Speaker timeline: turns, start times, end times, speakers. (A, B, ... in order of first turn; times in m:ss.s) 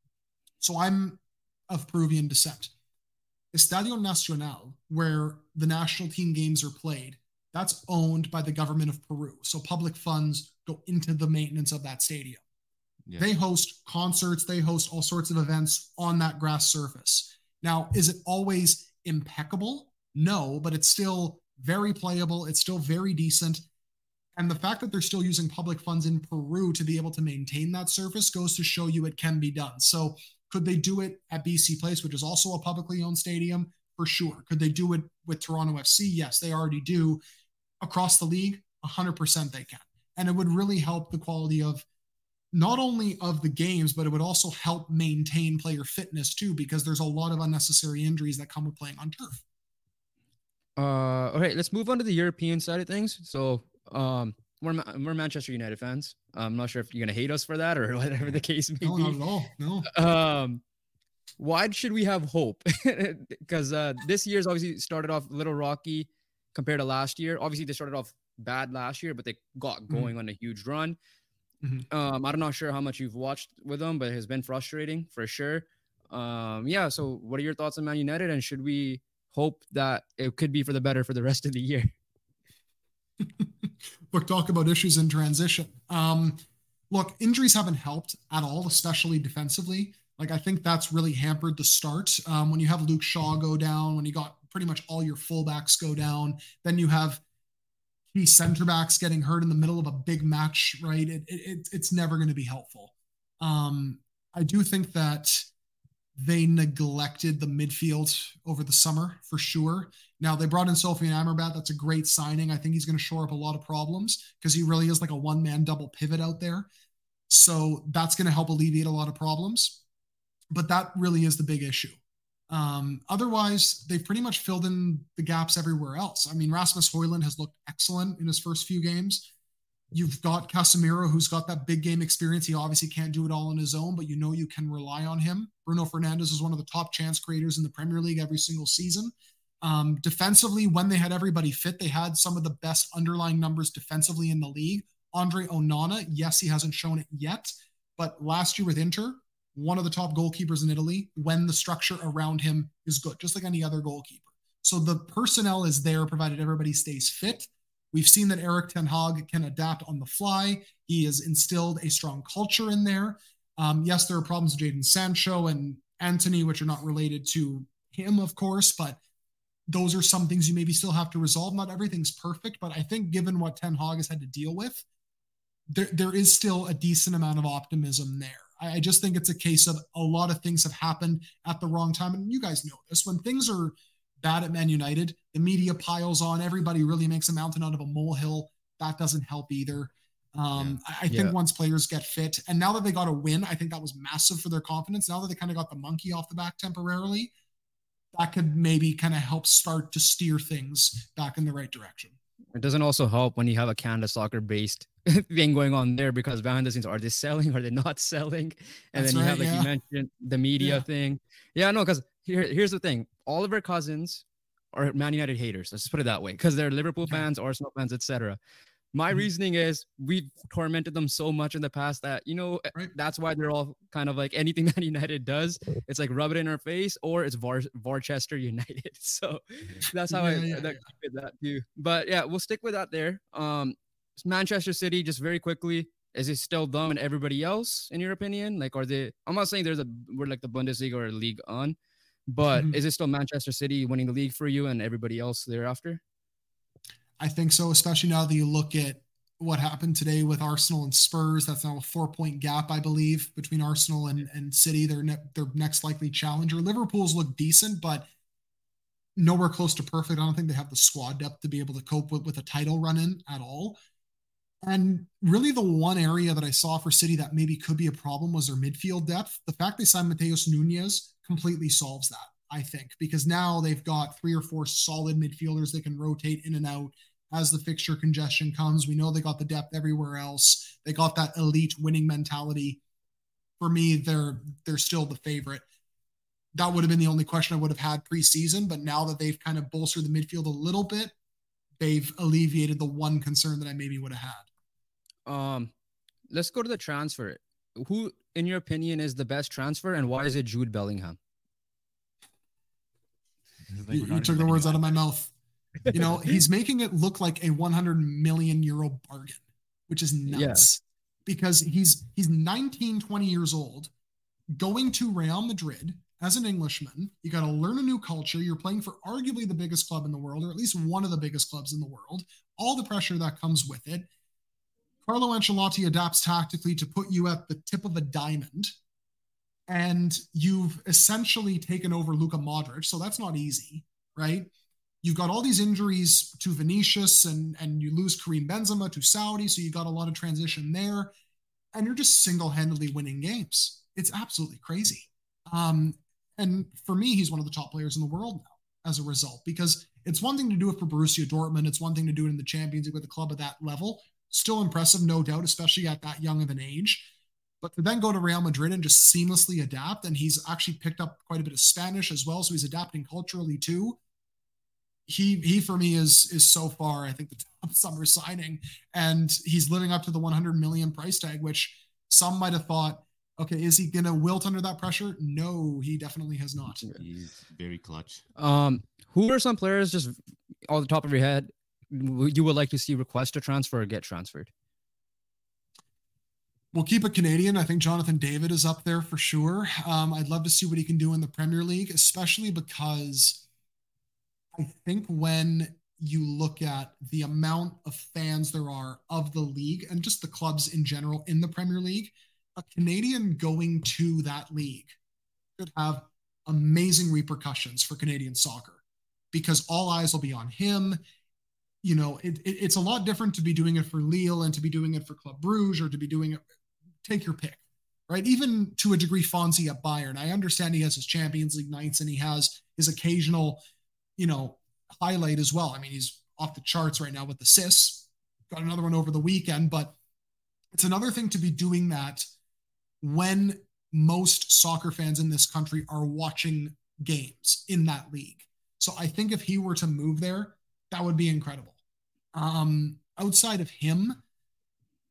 0:00.6-0:02.7 A
0:03.5-0:12.4 A
0:13.2-0:23.6 A
0:24.3-0:37.2 A
0:37.8-0:41.8 A
0:42.5-0:49.4 A
0:50.8-0:59.2 B
0:58.8-0:59.9 A
0:59.8-1:00.6 B
1:01.4-1:11.0 B
1:11.6-1:11.9 A
1:11.9-1:21.9 B
1:23.2-1:37.2 A
1:38.1-1:45.5 A
1:46.2-1:56.7 A
1:57.3-1:59.8 A
2:00.5-2:02.0 A
2:02.5-2:09.3 A
2:09.9-2:49.0 A
2:49.7-2:54.8 A
2:55.7-3:17.3 A
3:11.1-3:11.3 B
3:18.1-3:22.2 A
3:22.5-3:38.4 B
3:28.9-3:29.7 A
3:30.6-3:30.8 A
3:38.9-4:01.8 B
3:50.1-3:50.8 A
4:02.3-4:06.0 B
4:07.2-4:18.1 A
4:19.2-4:23.8 A
4:24.6-4:42.8 A
4:43.6-4:45.6 A
4:46.5-4:51.1 A
4:51.8-4:54.5 A
4:55.2-4:55.7 B
4:56.3-5:01.2 B
5:03.7-5:05.0 C
5:03.9-5:05.3 A
5:05.9-5:13.9 A
5:10.3-5:10.7 B
5:14.5-5:24.1 A
5:25.0-5:28.7 A
5:29.7-5:34.5 A
5:35.0-5:41.1 A
5:41.7-6:04.0 A
6:05.1-6:16.8 A
6:16.9-6:18.2 C
6:18.4-6:20.2 B
6:20.7-6:24.5 B
6:26.7-6:33.4 A
6:34.5-6:44.9 A
6:45.6-6:51.0 A
6:51.8-6:56.4 A
6:57.0-7:03.6 A
7:04.2-7:10.0 A
7:10.7-7:12.3 A
7:13.0-7:21.8 A
7:22.3-7:24.2 A